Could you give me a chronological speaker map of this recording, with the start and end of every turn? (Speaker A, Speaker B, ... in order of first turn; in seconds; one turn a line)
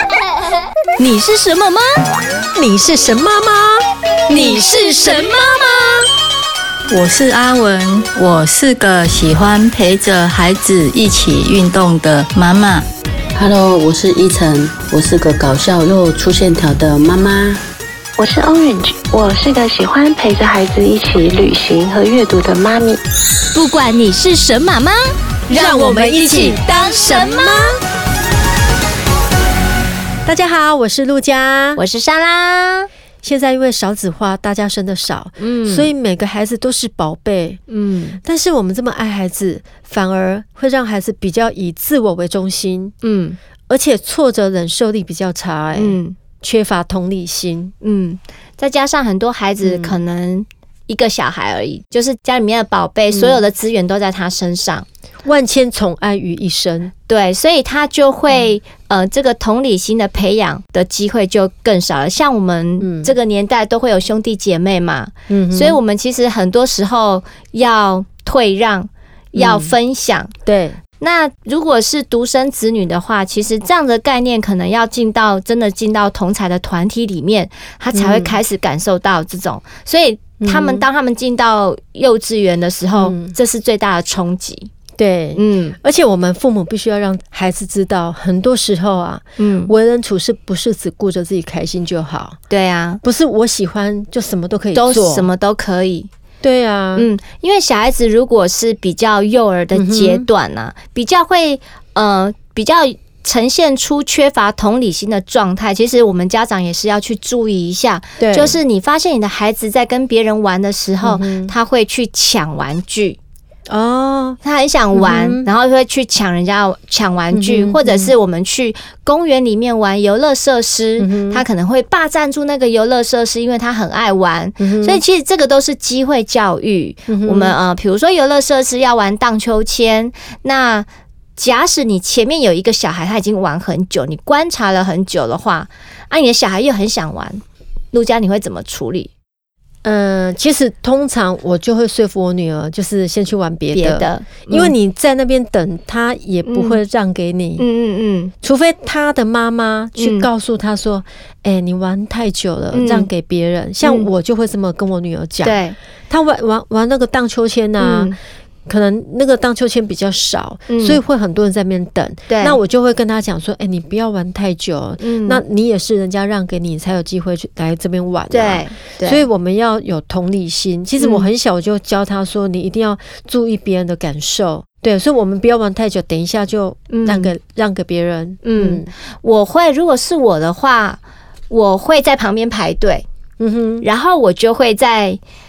Speaker A: 1.0-2.0
Speaker B: 2.5-3.8
Speaker A: 4.3-6.0
Speaker B: 5.1-5.4
Speaker C: 6.9-12.8
Speaker D: 13.4-17.6
Speaker E: 18.2-23.0
Speaker A: 23.5-27.7
Speaker B: 25.5-27.8
Speaker B: 30.2-31.8
Speaker A: 31.8-32.9
Speaker B: 33.2-37.6
Speaker A: 35.4-35.9
Speaker A: 37.7-38.2
Speaker B: 38.2-42.9
Speaker A: 43.0-43.4
Speaker B: 43.7-47.7
Speaker A: 45.8-46.2
Speaker A: 47.8-54.9
Speaker B: 49.6-49.9
Speaker B: 53.1-53.4
Speaker B: 55.2-56.9
Speaker A: 57.1-70.3
Speaker B: 62.8-63.1
Speaker B: 65.3-65.8
Speaker B: 69.4-69.7
Speaker B: 70.5-70.8
Speaker A: 71.0-84.7
Speaker B: 77.9-78.4
Speaker B: 80.4-80.8
Speaker B: 83.0-83.3
Speaker B: 85.0-92.4
Speaker A: 85.4-85.8
Speaker A: 89.4-89.7
Speaker A: 92.5-93.0
Speaker B: 93.0-95.3
Speaker A: 94.7-96.1
Speaker B: 96.4-97.1
Speaker A: 97.0-113.2
Speaker B: 99.8-100.3
Speaker B: 108.2-108.6
Speaker B: 111.0-111.5
Speaker B: 113.7-114.4
Speaker A: 114.4-139.1
Speaker B: 114.9-115.5
Speaker B: 117.3-118.1
Speaker B: 121.0-121.4
Speaker B: 124.6-125.0
Speaker B: 127.1-127.5
Speaker B: 139.8-147.7
Speaker A: 143.7-144.7
Speaker A: 146.5-146.8
Speaker A: 147.6-148.3
Speaker B: 148.4-155.6
Speaker A: 150.0-150.3
Speaker A: 152.7-153.1
Speaker A: 153.8-154.1
Speaker A: 155.4-155.8
Speaker B: 156.1-158.1
Speaker A: 157.8-158.2
Speaker B: 158.7-178.9
Speaker A: 160.7-161.0
Speaker A: 162.3-162.6
Speaker A: 165.0-165.4
Speaker A: 168.3-169.2
Speaker A: 171.0-171.3
Speaker A: 176.9-177.3
Speaker A: 178.4-183.1
Speaker B: 183.4-183.9
Speaker A: 183.8-185.2